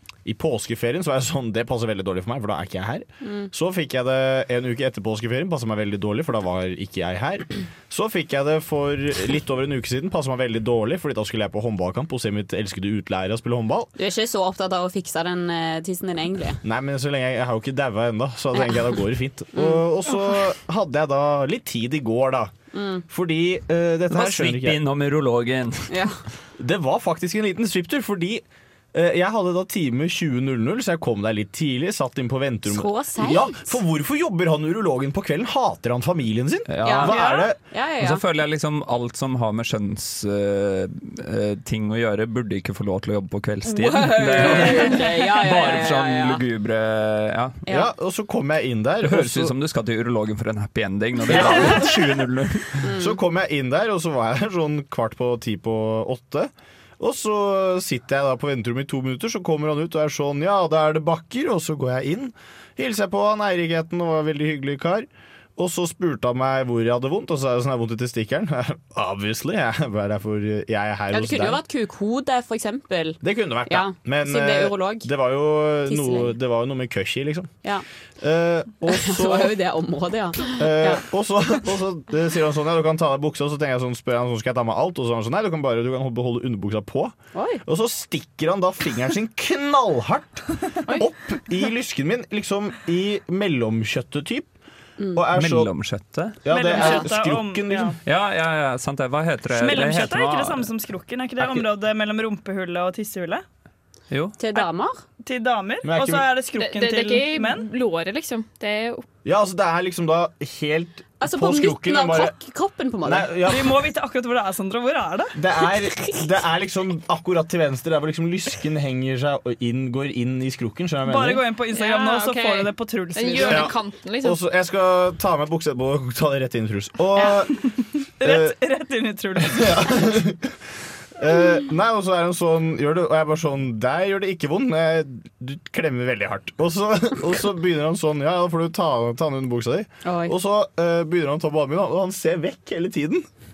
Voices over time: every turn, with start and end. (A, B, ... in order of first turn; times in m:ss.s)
0:00.2-0:13.9 A
0:03.2-0:03.5 B
0:14.0-0:16.6 B
0:16.6-0:22.5 A
0:18.5-0:19.0 B
0:19.5-0:19.8 B
0:22.7-0:23.0 B
0:23.1-0:24.8 A
0:24.1-0:26.0 C
0:25.9-0:26.2 B
0:26.6-0:37.6 A
0:32.7-0:33.8 B
0:36.7-0:37.2 C
0:36.8-0:38.2 B
0:38.0-0:47.6 C
0:43.6-0:46.4 B
0:47.7-0:49.5 A
0:49.0-0:52.8 C
0:51.3-0:51.6 B
0:51.3-0:52.2 A
0:52.8-0:53.2 B
0:53.0-1:11.6 A
1:11.1-1:15.1 B
1:13.2-1:17.5 A
1:15.9-1:16.3 B
1:18.2-1:19.6 A
1:18.9-1:21.0 B
1:20.5-1:34.5 A
1:27.3-1:27.6 B
1:35.0-1:35.2 B
1:35.1-1:35.7 A
1:35.3-1:36.4 C
1:36.4-1:37.9 A
1:36.5-1:38.0 D
1:36.7-1:37.0 B
1:38.0-1:40.7 C
1:39.5-1:43.4 D
1:41.4-1:41.6 C
1:44.1-1:44.4 C
1:44.4-1:45.0 B
1:45.2-1:47.7 D
1:45.8-1:46.2 A
1:46.5-1:49.0 E
1:49.2-1:52.3 A
1:51.2-1:53.3 B
1:53.0-1:53.8 A
1:53.4-1:55.3 D
1:55.3-2:01.4 A
2:01.0-2:03.7 D
2:01.7-2:04.4 E
2:03.4-2:07.6 A
2:07.4-2:10.2 D
2:08.2-2:08.5 A
2:09.4-2:10.5 A
2:11.2-2:23.2 A
2:20.0-2:20.3 B